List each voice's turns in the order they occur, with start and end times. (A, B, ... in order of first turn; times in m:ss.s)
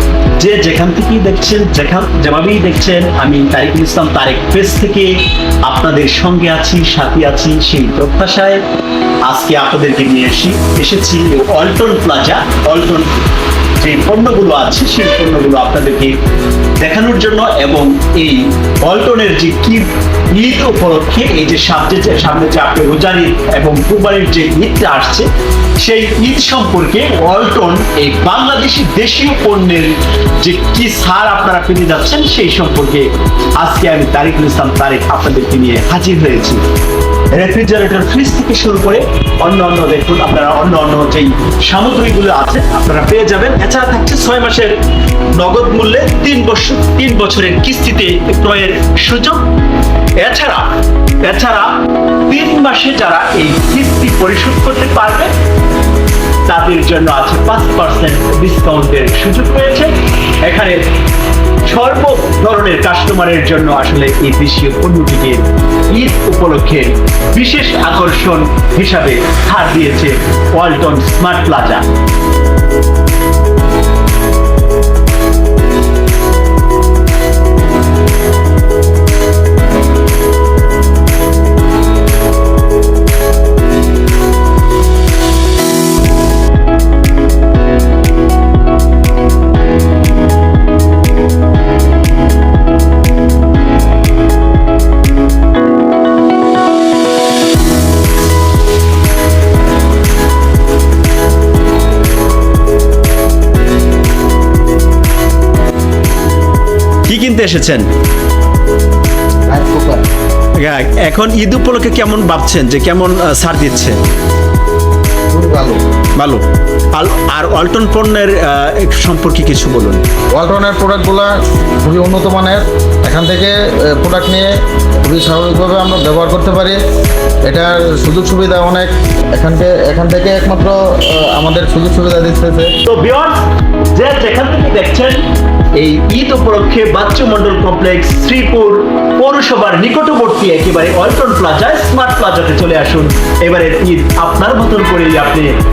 0:00.3-0:08.6 A
0:09.3-0:13.3 A
0:13.8-0:16.2 A
0:16.8-0:36.6 A
0:37.3-0:44.8 A
0:45.3-0:49.5 A
0:50.2-0:50.7 A
0:51.2-0:55.3 A
0:56.5-1:00.9 A
1:01.6-1:11.9 A
1:47.1-1:47.9 A
1:49.5-1:50.0 B
1:50.6-1:54.0 A
1:55.3-1:55.8 B
1:56.2-2:00.0 A
2:00.4-2:01.3 B
2:01.8-2:04.5 B
2:05.0-2:06.8 B
2:07.5-2:12.7 B
2:12.8-2:13.4 A
2:13.9-2:15.2 A
2:15.8-2:25.5 A